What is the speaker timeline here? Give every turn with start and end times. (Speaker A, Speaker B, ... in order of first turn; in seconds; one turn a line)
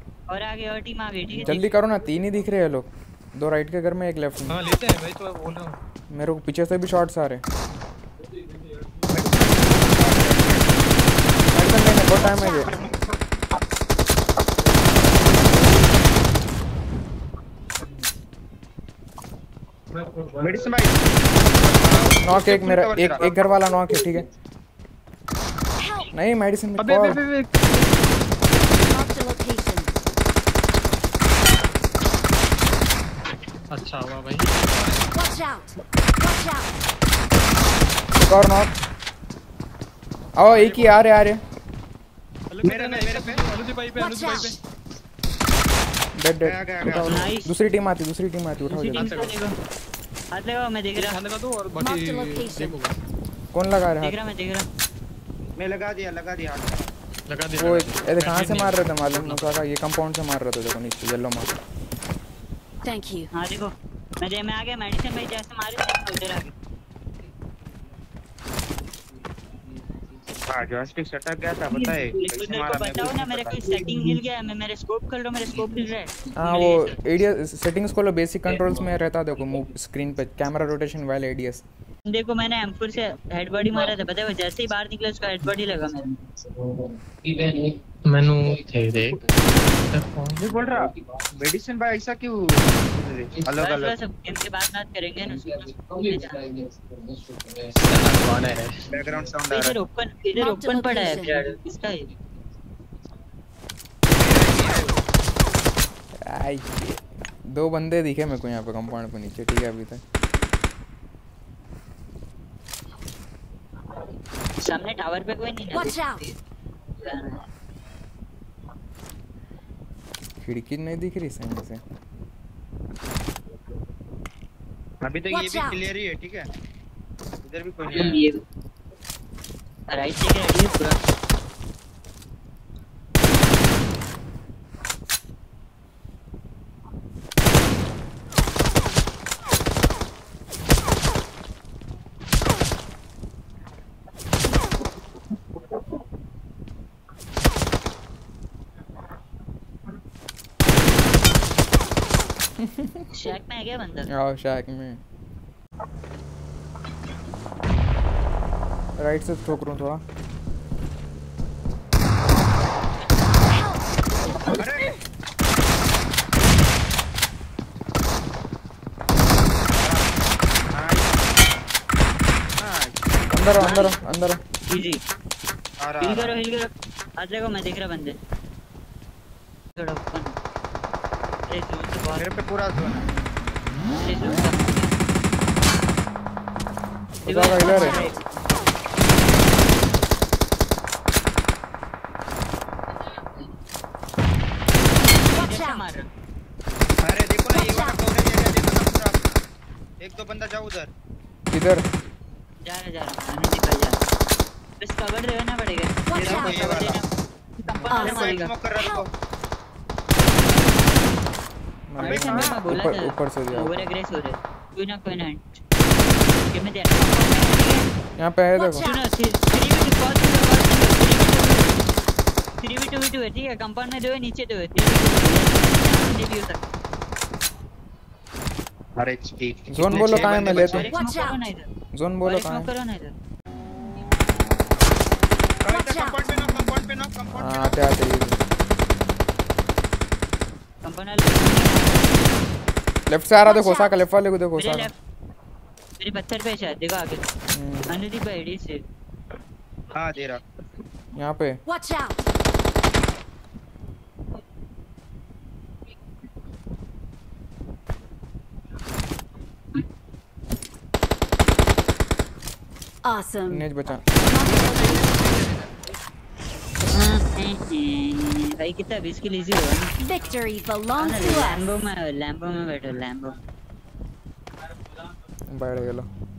Speaker A: 0.3-1.7
Speaker B: 1.4-4.6
Speaker C: 4.5-5.8
Speaker B: 6.1-7.4
Speaker D: 9.1-10.9
Speaker B: 11.5-12.7
Speaker C: 19.9-20.7
Speaker D: 20.4-21.0
Speaker D: 21.8-23.4
Speaker B: 22.2-24.3
Speaker E: 25.8-26.1
Speaker B: 26.1-27.2
Speaker C: 26.8-27.5
Speaker E: 28.8-29.9
Speaker C: 33.7-35.1
Speaker E: 35.1-36.6
Speaker B: 38.1-38.7
Speaker B: 40.4-41.4
Speaker C: 40.5-41.0
Speaker C: 42.5-44.6
Speaker D: 42.6-43.4
Speaker B: 46.1-49.2
Speaker D: 46.4-47.3
Speaker A: 46.9-47.5
Speaker A: 48.6-49.5
Speaker C: 49.0-49.4
Speaker A: 50.3-51.2
Speaker C: 51.0-53.0
Speaker E: 51.8-52.8
Speaker B: 53.5-54.1
Speaker A: 54.0-54.7
Speaker D: 55.6-56.9
Speaker C: 57.3-59.7
Speaker B: 57.5-61.5
Speaker E: 62.8-63.3
Speaker A: 63.3-66.5
Speaker D: 70.5-73.6
Speaker A: 71.7-76.3
Speaker B: 76.3-81.6
Speaker C: 76.4-77.1
Speaker A: 82.0-86.2
Speaker C: 88.0-89.2
Speaker C: 89.8-90.4
Speaker D: 90.4-94.0
Speaker A: 93.5-96.4
Speaker C: 97.7-98.8
Speaker D: 98.9-99.8
Speaker A: 99.5-102.1
Speaker E: 100.4-101.4
Speaker D: 104.1-105.0
Speaker B: 106.2-110.0
Speaker A: 114.6-116.3
Speaker A: 117.0-117.4
Speaker B: 120.4-121.8
Speaker D: 125.0-126.5
Speaker E: 125.3-125.8
Speaker D: 127.4-128.3
Speaker A: 127.9-128.4
Speaker A: 129.9-131.0
Speaker B: 152.6-153.1
Speaker A: 153.1-154.1
Speaker B: 154.1-155.0
Speaker B: 159.0-160.0
Speaker D: 164.5-164.9
Speaker D: 169.7-170.1
Speaker D: 170.7-171.2
Speaker D: 172.6-172.9
Speaker B: 173.3-174.4
Speaker A: 173.6-173.9
Speaker A: 174.7-175.0
Speaker D: 175.8-176.4
Speaker A: 176.0-178.1
Speaker A: 179.8-180.3
Speaker A: 181.5-182.3
Speaker D: 182.2-183.1
Speaker A: 183.9-184.9
Speaker B: 187.2-188.1
Speaker A: 187.2-188.2
Speaker A: 195.1-196.1
Speaker D: 197.0-199.4
Speaker D: 200.0-200.9
Speaker B: 201.5-201.8
Speaker A: 202.6-204.0
Speaker A: 204.8-207.1
Speaker E: 206.1-206.5
Speaker D: 206.2-207.0
Speaker A: 207.6-208.5
Speaker D: 207.9-209.1
Speaker E: 207.9-209.1
Speaker B: 211.9-213.9
Speaker A: 212.0-215.4
Speaker D: 212.0-212.6
Speaker A: 216.5-217.8
Speaker B: 218.2-218.9
Speaker A: 218.7-221.7
Speaker A: 222.6-226.7
Speaker D: 229.0-230.9
Speaker B: 229.7-230.9
Speaker A: 229.9-231.7
Speaker B: 231.9-232.7
Speaker A: 232.2-233.1
Speaker D: 235.6-237.8
Speaker E: 235.8-236.1
Speaker B: 237.3-238.4
Speaker A: 240.8-242.3
Speaker B: 243.1-244.9
Speaker E: 243.5-243.9
Speaker A: 244.6-244.9
Speaker A: 246.0-247.3
Speaker B: 247.5-247.9
Speaker A: 247.9-248.8
Speaker D: 249.9-250.4
Speaker B: 251.2-251.6
Speaker E: 251.7-252.1
Speaker E: 263.0-265.1
Speaker B: 263.5-264.2
Speaker A: 266.9-269.9
Speaker E: 270.0-271.7
Speaker A: 270.9-273.4
Speaker B: 275.5-276.1